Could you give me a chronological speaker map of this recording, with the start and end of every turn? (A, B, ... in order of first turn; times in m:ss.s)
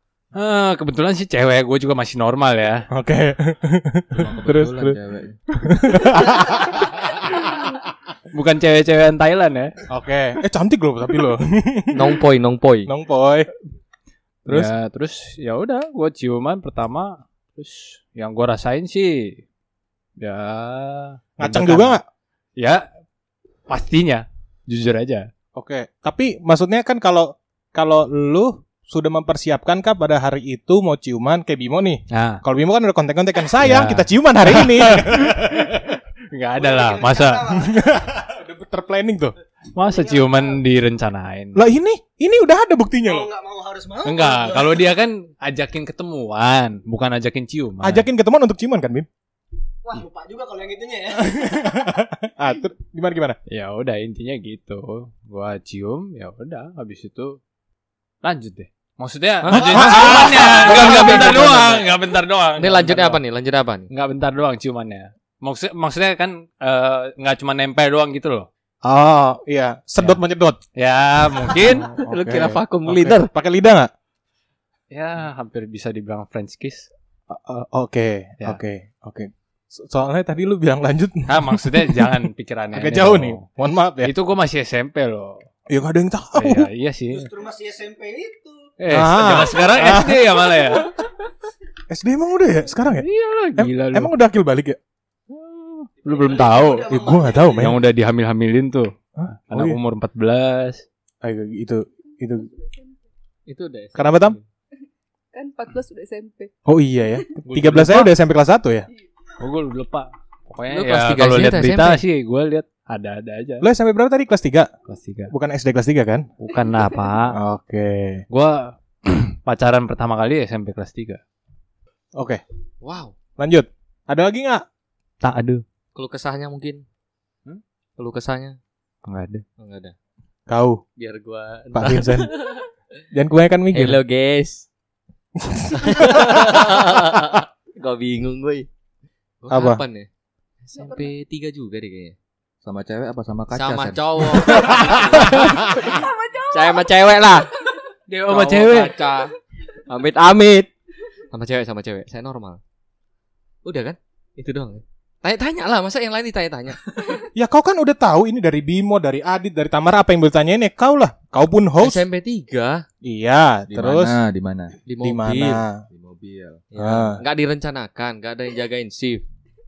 0:00.3-0:02.9 A
0:02.9-0:05.0 B
0:04.1-0:05.4 C
0:05.6-0:07.3 B
0:08.3-0:09.7 A
0:09.9-0:12.2 B
0:11.9-0:12.9 D
0:12.9-0:13.5 B
0:14.4-0:14.7 B
0:14.5-0:19.4 A
0:20.2-0:22.0 A
0:21.4-0:22.0 B
0:22.6-0:22.8 A
0:23.7-0:25.3 A
0:25.5-0:36.0 B
0:32.1-0:32.4 A
0:33.6-0:35.7 A
0:36.3-0:37.5 A
0:36.5-0:37.9 E
0:37.6-0:39.3 B
0:39.7-0:41.6 A
0:39.8-0:40.6 E
0:41.5-0:43.3 B
0:43.0-0:44.8 E
0:44.0-0:48.0 A
0:47.8-0:49.1 B
0:49.8-0:51.9 E
0:51.3-0:53.4 B
0:53.5-0:57.4 A
0:58.2-1:03.2 A
0:59.4-1:01.6 D
0:59.5-1:01.8 B
1:02.6-1:03.9 D
1:03.9-1:08.5 A
1:08.8-1:10.6 B
1:10.8-1:11.9 A
1:11.6-1:13.9 B
1:11.9-1:13.3 D
1:14.9-1:16.9 A
1:17.3-1:24.1 B
1:21.3-1:23.4 A
1:24.0-1:25.4 A
1:25.7-1:26.7 B
1:26.4-1:27.3 A
1:27.1-1:28.7 E
1:28.8-1:30.9 A
1:28.9-1:30.9 B
1:31.9-1:34.8 B
1:32.9-1:34.1 A
1:36.0-1:37.0 A
1:36.0-1:37.6 E
1:36.9-1:37.8 B
1:37.5-1:38.9 A
1:39.2-1:39.8 B
1:39.5-1:40.8 A
1:41.2-1:42.5 B
1:42.4-1:43.0 F
1:43.5-1:44.4 D
1:44.0-1:44.4 B
1:45.3-1:46.5 F
1:46.6-1:48.9 B
1:47.5-1:48.1 A
1:49.4-1:53.6 A
1:50.7-1:52.0 D
1:53.6-1:54.7 B
1:54.9-1:55.3 A
1:55.3-1:56.3 B
1:56.4-1:57.4 A
1:57.3-1:58.2 B
1:58.3-2:01.2 A
2:02.2-2:02.4 B
2:02.8-2:03.1 D
2:03.4-2:04.6 B
2:05.2-2:05.6 A
2:05.9-2:06.8 D
2:08.0-2:08.6 D
2:09.0-2:09.4 A
2:09.6-2:09.9 D
2:10.5-2:10.8 B
2:11.0-2:12.6 D
2:11.7-2:12.3 B
2:13.1-2:14.0 B
2:13.7-2:14.7 D
2:15.4-2:16.5 B
2:15.7-2:18.7 D
2:19.4-2:20.1 D
2:19.5-2:19.8 B
2:20.6-2:22.2 D
2:20.8-2:21.1 F
2:22.6-2:24.6 C
2:23.5-2:25.9 D
2:25.7-2:26.9 F
2:26.5-2:27.5 D
2:28.1-2:28.9 A
2:28.2-2:29.3 D
2:29.9-2:30.7 D
2:31.3-2:32.6 D
2:33.6-2:36.8 D
2:37.3-2:42.0 B
2:41.8-2:42.8 D
2:43.0-2:44.2 B
2:43.7-2:44.8 C
2:44.8-2:45.6 D
2:45.0-2:45.8 B
2:45.9-2:46.6 C
2:46.7-2:49.2 D
2:46.8-2:47.2 B